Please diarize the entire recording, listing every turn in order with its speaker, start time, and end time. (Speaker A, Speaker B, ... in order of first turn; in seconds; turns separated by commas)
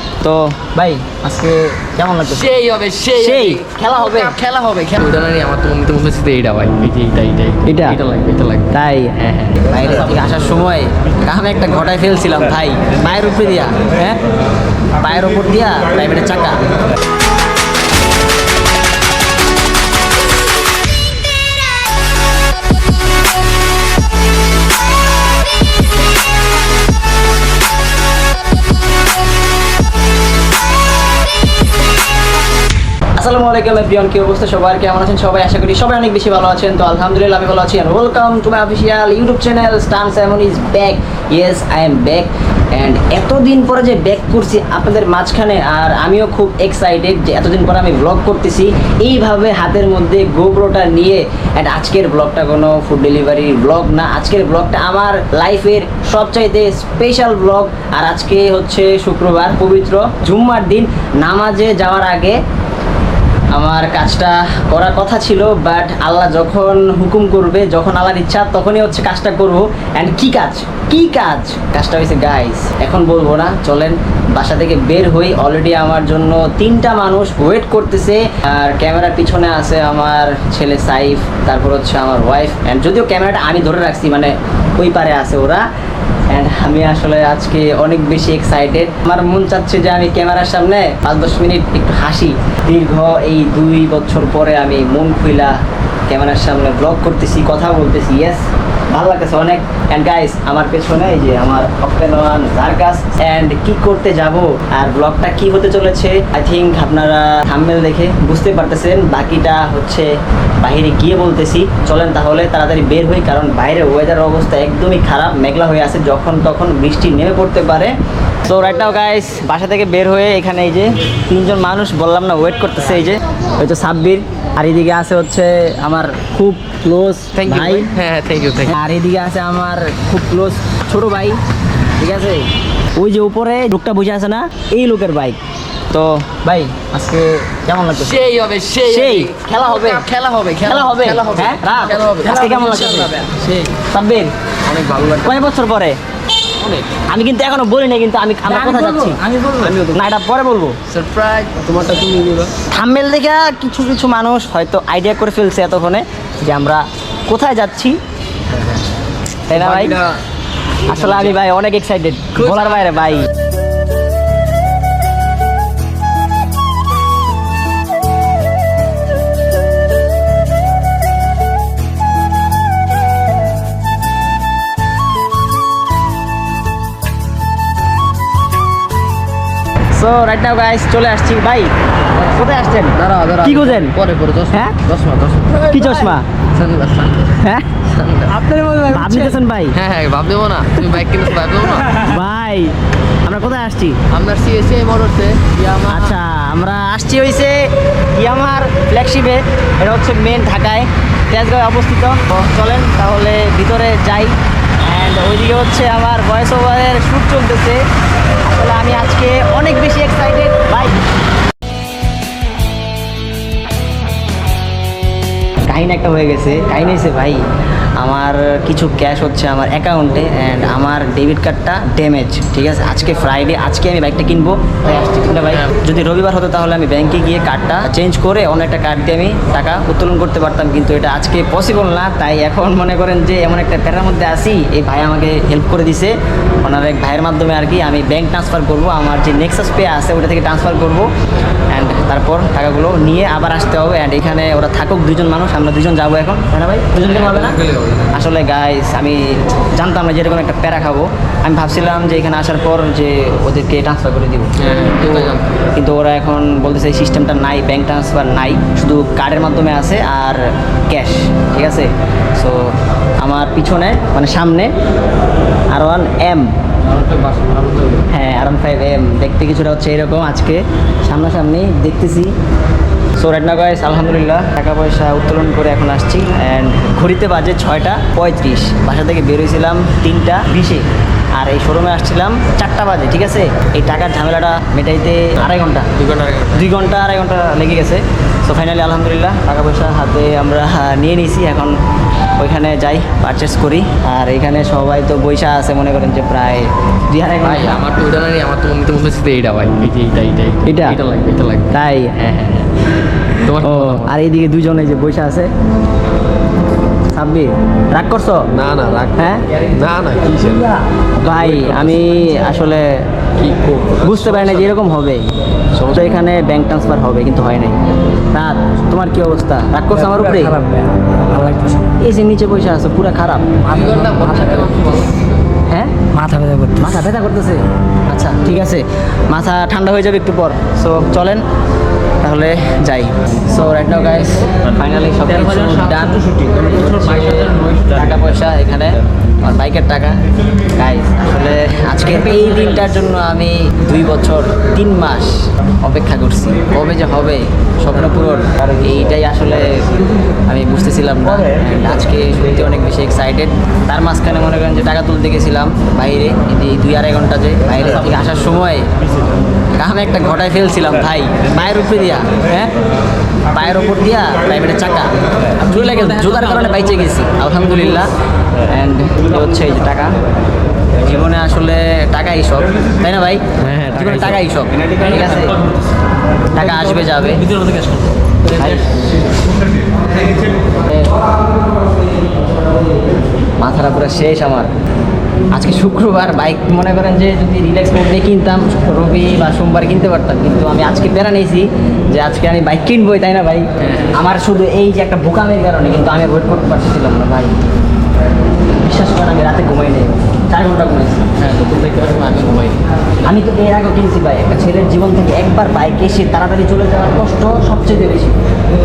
Speaker A: 0.2-2.5, Speaker B: 2.3-10.1, Speaker A: 3.1-4.4, Speaker A: 7.7-8.0, Speaker A: 8.7-14.2, Speaker A: 15.0-16.6, Speaker A: 33.2-62.4, Speaker A: 63.5-85.7, Speaker A: 86.3-95.6, Speaker A: 96.1-117.9, Speaker A: 118.5-127.9, Speaker B: 127.4-128.8, Speaker A: 128.7-131.4, Speaker A: 131.9-135.4, Speaker A: 135.9-138.3, Speaker B: 138.0-143.7, Speaker A: 138.8-140.1, Speaker A: 140.6-144.3, Speaker B: 144.8-145.1, Speaker A: 145.2-146.0, Speaker A: 146.8-150.8, Speaker C: 148.5-149.7, Speaker B: 150.9-152.5, Speaker A: 152.7-158.0, Speaker A: 159.5-160.0, Speaker B: 159.5-160.2, Speaker A: 160.9-163.3, Speaker B: 160.9-161.3, Speaker B: 162.4-162.9, Speaker A: 179.9-183.9, Speaker B: 183.0-188.5, Speaker A: 185.7-186.3, Speaker A: 187.4-187.7, Speaker C: 188.3-189.4, Speaker A: 188.9-189.8, Speaker B: 189.7-192.0, Speaker A: 192.0-194.0, Speaker B: 194.1-196.1, Speaker A: 195.9-207.8, Speaker A: 208.4-211.0, Speaker A: 215.6-217.4, Speaker A: 218.0-241.1, Speaker A: 241.7-247.6, Speaker B: 247.1-248.1, Speaker A: 248.1-264.7, Speaker B: 254.6-255.5, Speaker A: 265.7-266.5, Speaker B: 266.9-268.1, Speaker A: 268.1-272.3, Speaker A: 273.2-285.9, Speaker B: 286.0-286.6, Speaker A: 286.5-291.8, Speaker A: 292.4-297.8, Speaker B: 297.4-302.7, Speaker A: 300.6-301.0, Speaker A: 301.7-302.1, Speaker B: 303.4-304.1, Speaker A: 303.6-305.5, Speaker A: 307.1-308.5, Speaker D: 308.5-310.8, Speaker A: 309.2-309.5, Speaker A: 311.2-313.1, Speaker B: 311.4-312.0, Speaker D: 313.4-314.6, Speaker A: 314.0-315.3, Speaker D: 315.7-316.2, Speaker A: 315.9-320.6, Speaker C: 319.9-321.9, Speaker A: 322.0-323.5, Speaker B: 323.6-325.5, Speaker A: 325.7-326.0, Speaker C: 326.1-327.0, Speaker A: 326.8-331.4, Speaker A: 332.2-340.2, Speaker B: 335.7-336.1, Speaker B: 336.7-337.8, Speaker A: 340.8-349.9, Speaker A: 350.5-358.9, Speaker A: 359.7-362.7, Speaker A: 363.5-370.1, Speaker A: 371.0-375.6, Speaker B: 373.6-374.4, Speaker A: 376.5-377.5, Speaker A: 378.5-378.9, Speaker A: 380.8-381.1, Speaker A: 383.6-384.7, Speaker A: 385.5-397.6, Speaker B: 393.8-394.2, Speaker A: 398.7-401.3, Speaker B: 401.4-402.8, Speaker A: 403.2-408.4